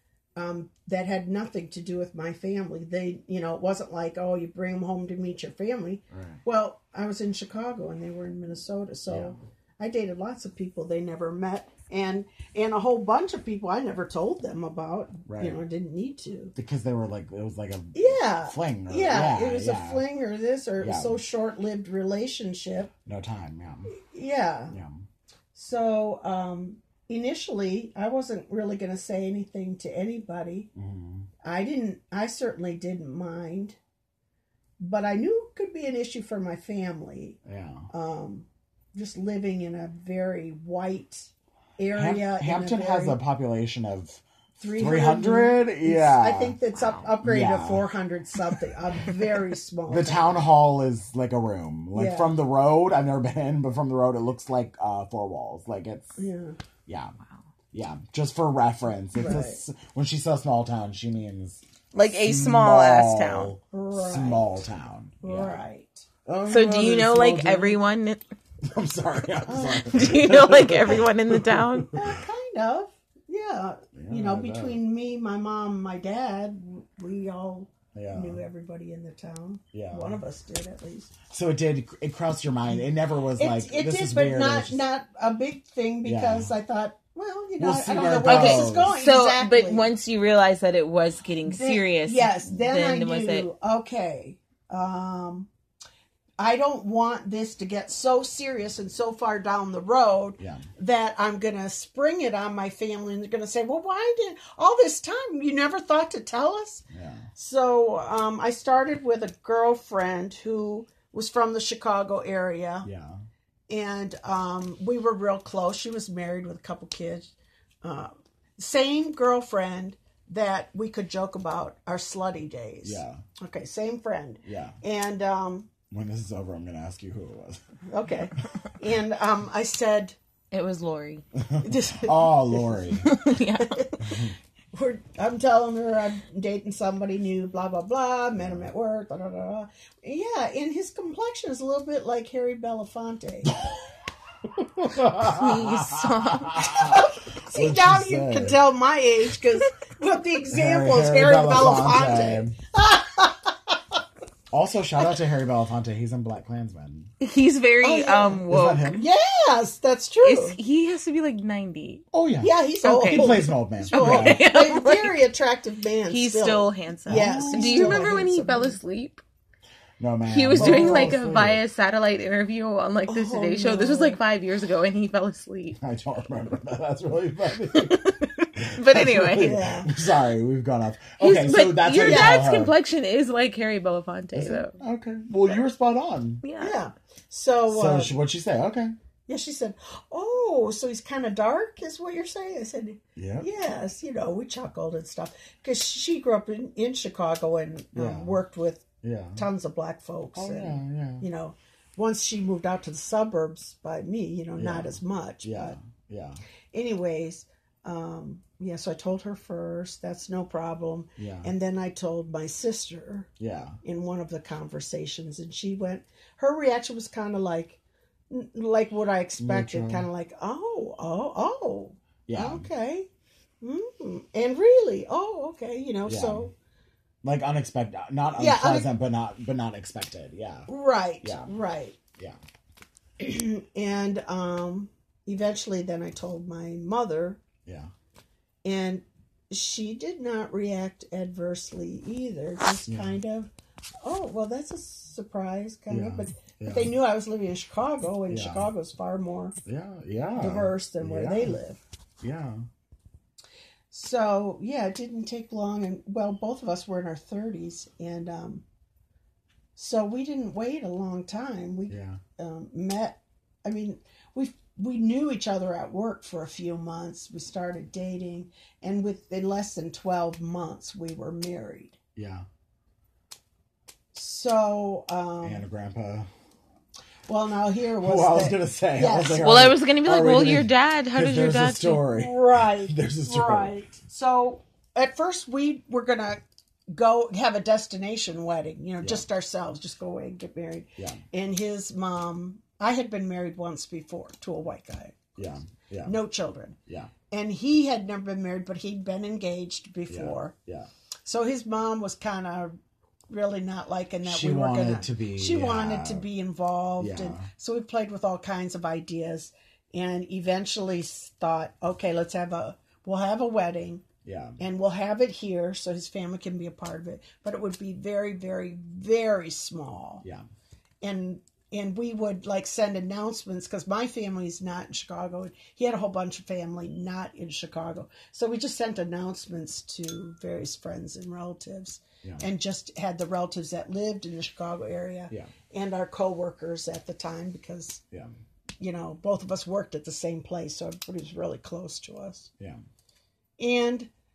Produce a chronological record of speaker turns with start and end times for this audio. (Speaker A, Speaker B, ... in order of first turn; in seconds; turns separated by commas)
Speaker A: 0.3-16.5, Speaker B: 6.1-6.4, Speaker B: 9.1-9.4, Speaker B: 15.3-15.6, Speaker B: 16.5-20.0, Speaker A: 17.9-22.9, Speaker B: 20.8-21.2, Speaker B: 23.0-23.9, Speaker A: 23.9-24.8, Speaker B: 24.7-25.0, Speaker A: 25.5-30.7, Speaker B: 30.8-31.3, Speaker A: 31.4-33.8, Speaker A: 34.8-37.4, Speaker B: 37.4-37.9, Speaker A: 37.9-43.2, Speaker B: 41.9-46.6, Speaker A: 44.6-50.5, Speaker C: 46.8-47.0, Speaker B: 47.2-47.9, Speaker B: 49.9-56.2, Speaker A: 51.9-52.3, Speaker A: 56.2-56.6, Speaker B: 56.9-57.1, Speaker B: 57.7-65.6, Speaker A: 59.1-59.6, Speaker C: 61.9-63.5, Speaker A: 63.7-64.6, Speaker A: 65.2-66.1, Speaker B: 66.2-67.8, Speaker C: 66.5-68.2, Speaker B: 68.6-72.2, Speaker A: 69.5-69.8, Speaker C: 69.8-72.0, Speaker A: 72.0-81.1, Speaker B: 74.0-74.8, Speaker B: 77.9-78.4, Speaker B: 79.7-80.2, Speaker B: 81.3-84.8, Speaker A: 83.3-89.9, Speaker B: 86.0-86.5, Speaker B: 87.6-89.0, Speaker C: 88.2-93.5, Speaker A: 91.5-95.5, Speaker A: 96.4-112.9, Speaker B: 100.4-100.7, Speaker B: 106.9-107.3, Speaker B: 112.8-113.2, Speaker A: 113.7-125.7, Speaker B: 122.8-123.2, Speaker B: 124.5-124.8, Speaker B: 125.9-127.6, Speaker A: 127.9-130.2, Speaker C: 130.5-131.2, Speaker B: 131.3-133.1, Speaker A: 131.6-132.8, Speaker C: 133.0-134.0, Speaker A: 133.6-143.6, Speaker B: 134.0-134.3, Speaker B: 138.4-138.7, Speaker B: 144.4-148.6, Speaker C: 145.2-146.9, Speaker A: 146.6-154.0, Speaker B: 150.5-152.6, Speaker B: 154.5-157.1, Speaker C: 157.2-159.0, Speaker A: 157.8-160.6, Speaker B: 158.5-159.1, Speaker C: 160.2-162.0, Speaker B: 162.1-164.4, Speaker A: 162.4-168.8, Speaker C: 162.8-165.2, Speaker C: 166.1-169.2, Speaker B: 167.1-168.1, Speaker B: 170.0-171.6, Speaker C: 170.3-175.8, Speaker A: 170.6-171.3, Speaker A: 173.1-174.2, Speaker B: 175.8-178.0, Speaker C: 177.7-179.6, Speaker B: 178.6-182.7, Speaker A: 179.4-179.9, Speaker C: 181.2-184.7, Speaker A: 182.0-182.4, Speaker B: 184.3-186.4, Speaker C: 186.4-186.8, Speaker A: 186.6-188.1, Speaker B: 187.7-188.9, Speaker A: 189.3-205.8, Speaker B: 193.2-193.5, Speaker B: 197.9-198.4, Speaker B: 199.0-199.4, Speaker B: 200.3-201.2, Speaker B: 204.6-206.4, Speaker A: 206.7-213.3, Speaker B: 211.2-211.5, Speaker B: 213.4-213.8, Speaker A: 213.8-223.1, Speaker B: 219.4-220.1, Speaker B: 222.3-222.7, Speaker A: 223.6-226.5, Speaker B: 226.1-226.5, Speaker B: 227.2-230.7, Speaker A: 228.3-228.8, Speaker A: 230.7-232.0, Speaker B: 231.2-231.5, Speaker A: 233.2-237.4, Speaker B: 237.6-237.9, Speaker A: 238.6-243.5, Speaker B: 242.9-243.2, Speaker A: 244.0-249.5, Speaker B: 245.9-246.9, Speaker B: 248.3-248.7, Speaker B: 249.7-251.6, Speaker A: 250.4-251.8, Speaker B: 252.2-252.6, Speaker A: 253.9-258.6, Speaker A: 259.8-272.0, Speaker B: 261.9-262.2, Speaker B: 272.1-272.4, Speaker A: 274.1-275.6, Speaker B: 275.4-276.3, Speaker A: 277.3-279.5, Speaker B: 278.0-283.7, Speaker C: 279.4-282.0, Speaker A: 282.1-295.3, Speaker B: 289.0-289.2, Speaker B: 291.0-291.2, Speaker B: 295.4-296.1, Speaker A: 296.0-296.8, Speaker B: 296.9-297.1, Speaker A: 297.3-300.5, Speaker B: 300.1-300.9, Speaker A: 301.2-302.7, Speaker A: 303.3-314.0, Speaker B: 304.2-306.2, Speaker B: 307.0-307.4, Speaker B: 314.2-314.6, Speaker A: 314.6-320.2, Speaker A: 321.0-338.0, Speaker A: 338.8-342.5, Speaker A: 343.6-344.1